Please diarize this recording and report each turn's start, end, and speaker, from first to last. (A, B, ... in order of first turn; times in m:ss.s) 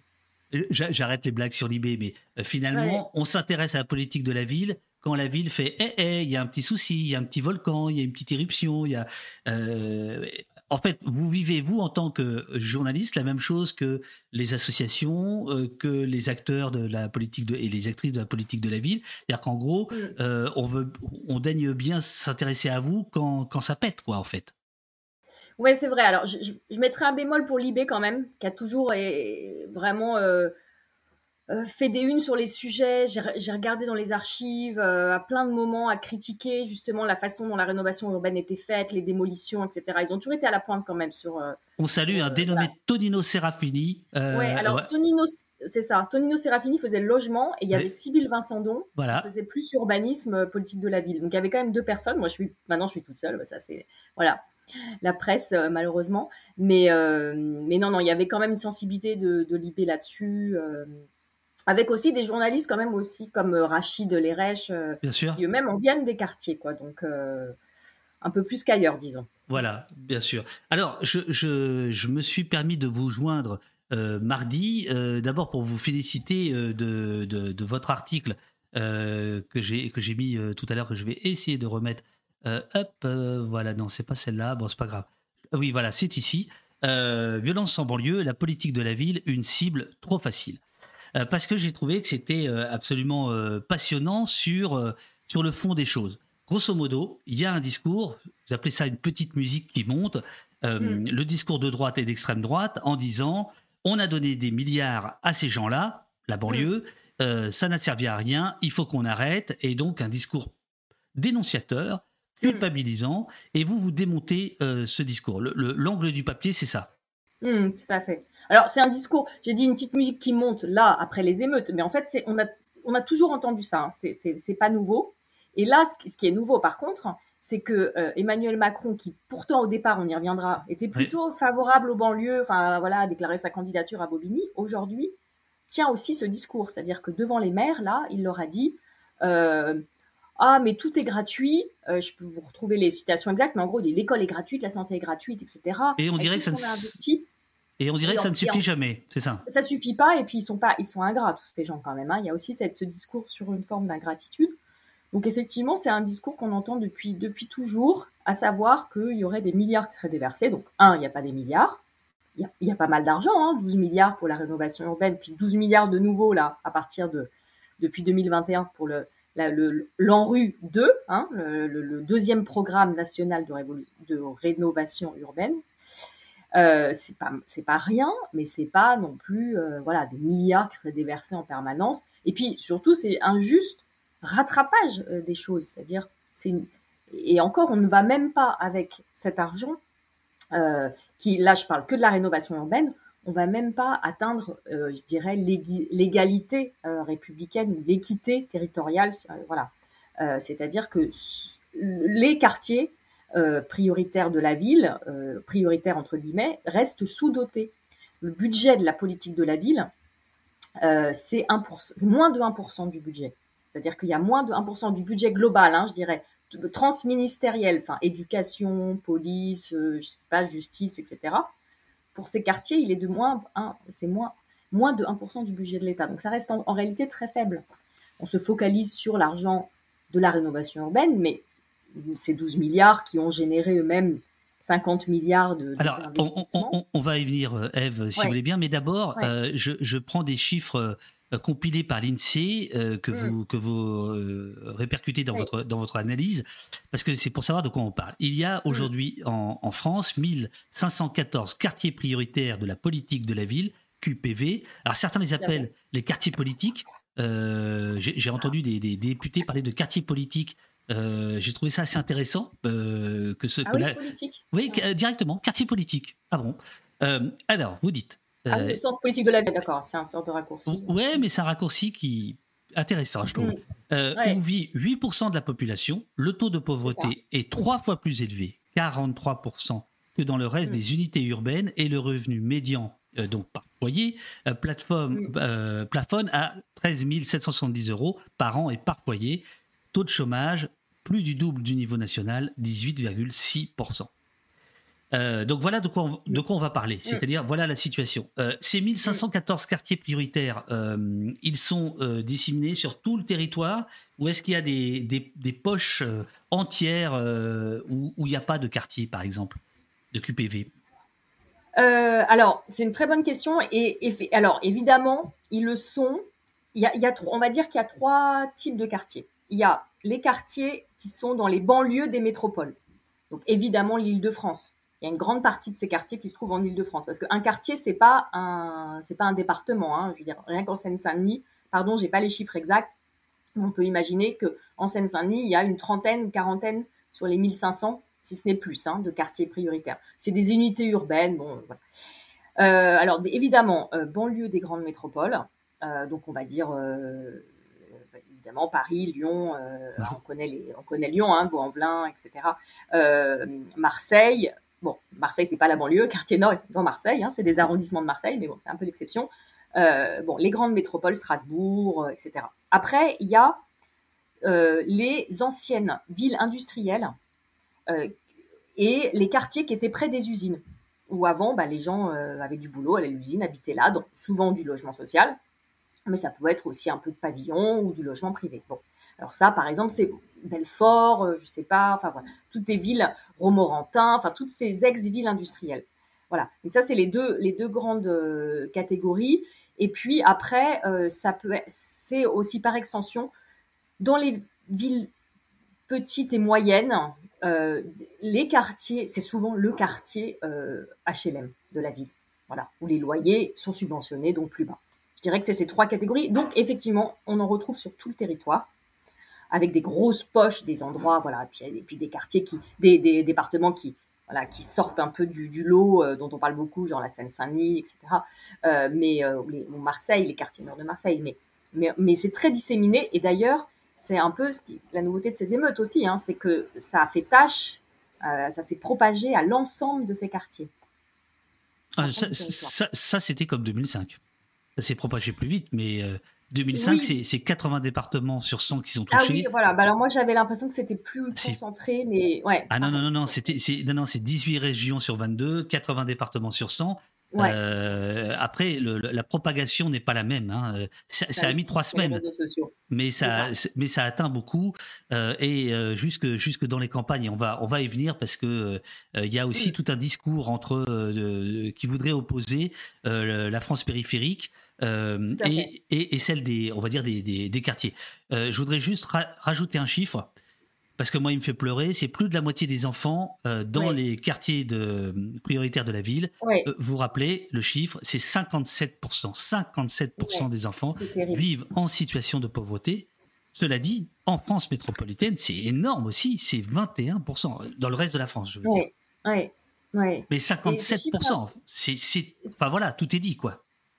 0:00.5-0:24.5 A
0:02.7-0:03.0 B
0:19.9-0:20.1 B
0:25.6-0:30.5 B
0:31.5-0:42.7 B
0:41.8-0:44.9 A
0:44.3-0:54.4 B
0:49.0-0:49.3 A
0:55.0-1:01.0 B
1:01.7-1:07.6 B
1:05.0-1:05.4 A
1:08.2-1:09.5 B
1:09.5-1:30.6 A
1:31.1-1:50.5 A
1:40.8-1:41.0 B
1:51.2-1:56.9 A
1:57.4-2:15.1 B
2:15.7-2:19.8 B
2:20.4-2:27.3 B
2:26.0-2:27.0 A
2:27.8-2:29.4 A
2:28.0-2:28.6 B
2:29.4-2:34.6 B
2:35.1-2:41.8 B
2:42.4-2:55.6 B
2:56.5-3:09.8 B
3:10.5-3:29.9 B
3:30.8-3:41.5 B
3:42.1-3:47.6 B
3:48.2-3:56.8 B
3:55.8-4:24.0 A
4:03.1-4:03.4 B
4:15.4-4:15.6 B
4:23.6-4:24.8 B
4:24.5-4:28.8 A
4:28.5-4:31.2 B
4:30.7-4:54.1 A
4:36.8-4:37.1 B
4:55.1-5:09.6 A
5:10.1-5:10.7 A
5:11.8-5:22.8 B
5:23.3-5:32.9 B
5:33.6-5:41.8 B
5:42.6-6:03.6 B
6:04.4-6:07.1 B
6:07.9-6:08.2 B
6:08.8-6:15.4 B
6:16.1-6:33.3 B
6:34.0-6:35.1 B
6:35.9-6:48.7 B
6:49.5-7:10.7 B
7:12.0-7:14.2 A
7:12.0-7:12.7 B
7:14.8-7:19.5 A
7:16.7-7:17.2 B
7:19.1-7:23.6 B
7:22.7-7:32.2 A
7:31.3-7:33.5 B
7:32.9-7:50.3 A
7:45.3-7:45.7 B
7:51.0-8:08.8 A
7:56.4-7:56.7 B
8:00.2-8:01.4 B
8:08.6-8:11.4 B
8:10.3-8:13.6 A